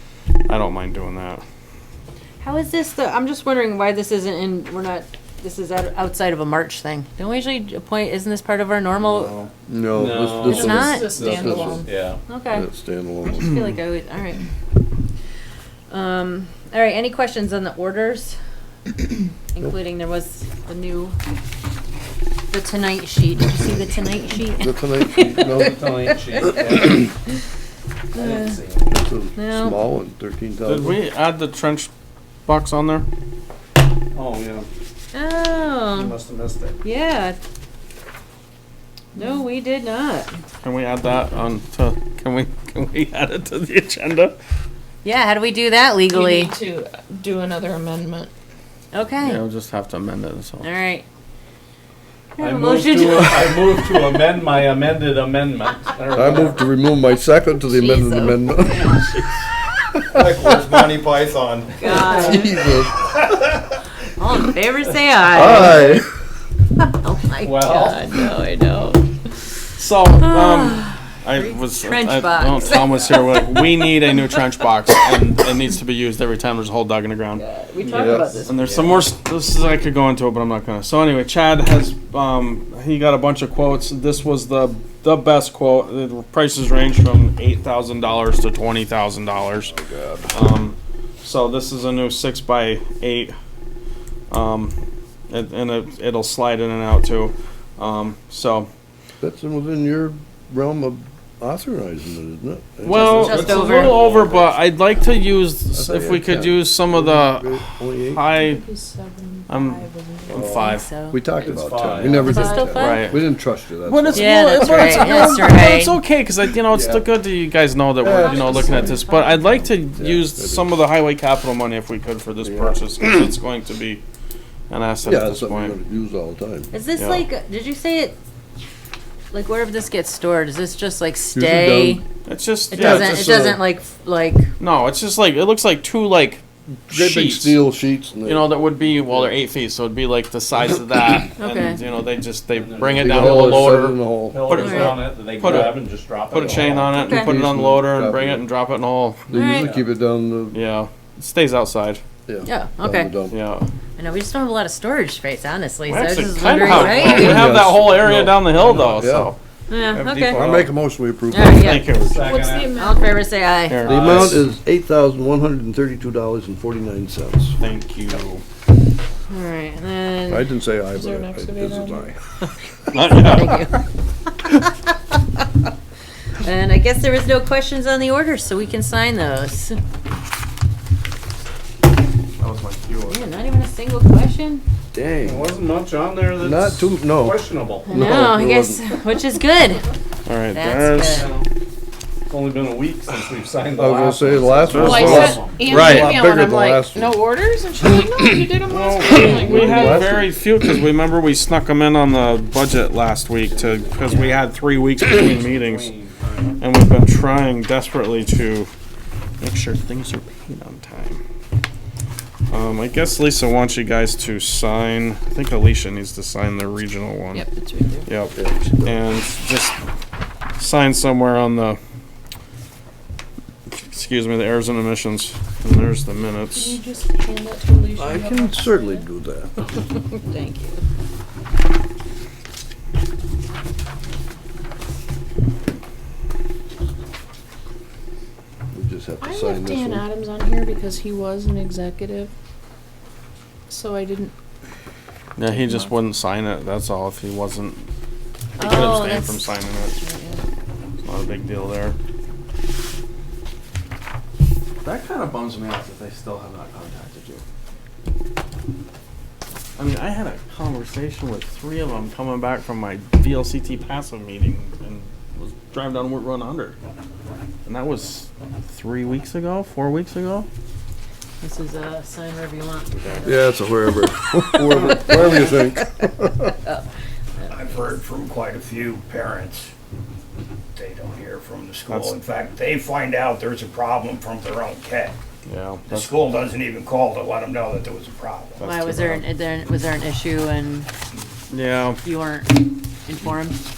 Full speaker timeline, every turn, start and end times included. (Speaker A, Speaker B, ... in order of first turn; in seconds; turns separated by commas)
Speaker A: 0.5-1.4, Speaker B: 2.4-9.3, Speaker A: 9.0-9.5, Speaker C: 9.7-11.9, Speaker D: 9.9-12.2, Speaker B: 10.4-11.4, Speaker E: 10.5-11.9, Speaker B: 12.3-12.7, Speaker C: 12.5-13.6, Speaker B: 13.2-14.5, Speaker B: 15.9-18.4, Speaker B: 19.5-21.2, Speaker B: 22.5-27.1, Speaker C: 24.6-25.9, Speaker D: 25.4-27.1, Speaker B: 28.1-28.6, Speaker D: 28.1-29.0, Speaker C: 28.9-31.0, Speaker B: 29.4-29.8, Speaker A: 30.6-31.9, Speaker A: 32.5-33.1, Speaker D: 34.1-34.7, Speaker B: 35.1-36.2, Speaker D: 35.9-36.8, Speaker B: 36.8-37.4, Speaker E: 39.1-39.5, Speaker B: 39.1-40.3, Speaker A: 40.6-44.4, Speaker B: 45.0-46.5, Speaker E: 46.1-48.3, Speaker B: 48.9-49.4, Speaker A: 49.2-50.7, Speaker B: 50.6-51.1, Speaker B: 52.4-53.7, Speaker D: 52.4-56.7, Speaker C: 56.1-59.1, Speaker B: 57.5-59.0, Speaker F: 60.2-61.1, Speaker D: 60.3-61.9, Speaker B: 61.8-62.8, Speaker C: 61.9-63.0, Speaker D: 63.1-63.8, Speaker B: 64.1-66.0, Speaker C: 65.3-66.1, Speaker B: 66.8-69.0, Speaker D: 67.4-68.1, Speaker A: 69.8-77.4, Speaker B: 70.2-74.3, Speaker B: 77.4-78.8, Speaker C: 77.8-78.4, Speaker A: 78.5-89.7, Speaker D: 78.6-79.0, Speaker C: 89.6-90.4, Speaker A: 90.3-93.3, Speaker A: 94.3-94.8, Speaker A: 95.3-98.7, Speaker C: 99.2-104.0, Speaker A: 102.8-108.6, Speaker B: 102.9-104.1, Speaker F: 103.7-104.0, Speaker C: 105.7-108.2, Speaker E: 108.3-110.5, Speaker A: 109.5-110.9, Speaker C: 110.3-115.2, Speaker B: 110.3-111.2, Speaker D: 111.4-112.3, Speaker B: 112.1-113.1, Speaker E: 112.2-112.8, Speaker A: 112.7-113.3, Speaker A: 113.9-124.0, Speaker B: 114.1-116.0, Speaker C: 116.7-117.1, Speaker C: 118.0-119.0, Speaker E: 118.1-119.7, Speaker C: 119.9-120.7, Speaker C: 122.4-122.8, Speaker A: 124.7-125.8, Speaker C: 125.0-126.7, Speaker B: 126.7-128.2, Speaker A: 127.0-127.3, Speaker B: 129.3-132.0, Speaker C: 131.3-132.0, Speaker A: 132.3-133.3, Speaker C: 132.7-133.7, Speaker B: 132.7-134.5, Speaker A: 134.6-137.6, Speaker C: 136.9-138.5, Speaker A: 138.2-149.3, Speaker B: 141.4-141.8, Speaker D: 142.5-143.6, Speaker C: 142.8-144.7, Speaker D: 144.3-147.0, Speaker B: 144.5-145.7, Speaker C: 146.4-148.4, Speaker B: 146.9-147.3, Speaker C: 149.3-150.6, Speaker B: 149.3-149.7, Speaker D: 149.6-149.9, Speaker A: 150.5-152.0, Speaker C: 152.3-153.4, Speaker B: 152.5-153.1, Speaker A: 153.3-153.7, Speaker B: 154.0-157.6, Speaker A: 155.9-159.4, Speaker C: 156.7-159.3, Speaker B: 159.7-160.5, Speaker A: 159.9-160.7, Speaker C: 160.3-161.9, Speaker B: 161.3-162.0, Speaker A: 161.5-162.5, Speaker D: 161.9-162.8, Speaker E: 162.2-163.2, Speaker B: 162.6-164.0, Speaker A: 163.7-164.5, Speaker C: 163.8-167.6, Speaker A: 167.6-168.4, Speaker B: 169.3-170.5, Speaker C: 170.3-172.5, Speaker E: 170.9-172.1, Speaker A: 172.9-173.7, Speaker B: 173.1-173.8, Speaker B: 176.4-179.8, Speaker A: 182.4-183.2, Speaker B: 183.1-184.6, Speaker C: 184.9-185.5, Speaker D: 185.2-188.1, Speaker C: 186.4-188.9, Speaker B: 187.9-189.9, Speaker A: 190.3-191.3, Speaker B: 190.5-191.3, Speaker D: 191.1-191.5, Speaker D: 192.3-196.3, Speaker C: 193.8-197.2, Speaker A: 194.7-196.0, Speaker E: 194.8-200.1, Speaker C: 197.9-198.5, Speaker A: 198.7-205.9, Speaker C: 199.0-200.4, Speaker D: 203.5-204.4, Speaker D: 205.2-206.5, Speaker A: 206.6-208.7, Speaker A: 209.4-211.2, Speaker A: 212.5-217.4, Speaker B: 217.3-218.1, Speaker A: 218.1-219.8, Speaker C: 218.3-219.0, Speaker A: 220.6-221.8, Speaker A: 223.7-226.8, Speaker E: 226.5-229.0, Speaker C: 228.0-229.6, Speaker B: 229.7-230.8, Speaker C: 238.7-240.1, Speaker E: 239.2-242.3, Speaker E: 243.7-244.3, Speaker A: 245.4-247.9, Speaker E: 245.5-245.9, Speaker A: 248.6-250.0, Speaker B: 248.6-250.4, Speaker A: 251.0-252.0, Speaker A: 254.8-257.4, Speaker A: 259.8-266.8, Speaker A: 267.6-270.5, Speaker B: 271.4-273.7, Speaker A: 273.0-273.3, Speaker C: 273.2-276.5, Speaker B: 274.5-276.9, Speaker B: 277.4-277.7, Speaker F: 277.5-279.7, Speaker F: 280.8-285.1, Speaker A: 281.9-282.1, Speaker A: 285.5-286.2, Speaker F: 285.9-288.9, Speaker A: 288.6-289.2, Speaker B: 288.6-290.9, Speaker A: 291.5-292.0, Speaker B: 292.0-293.6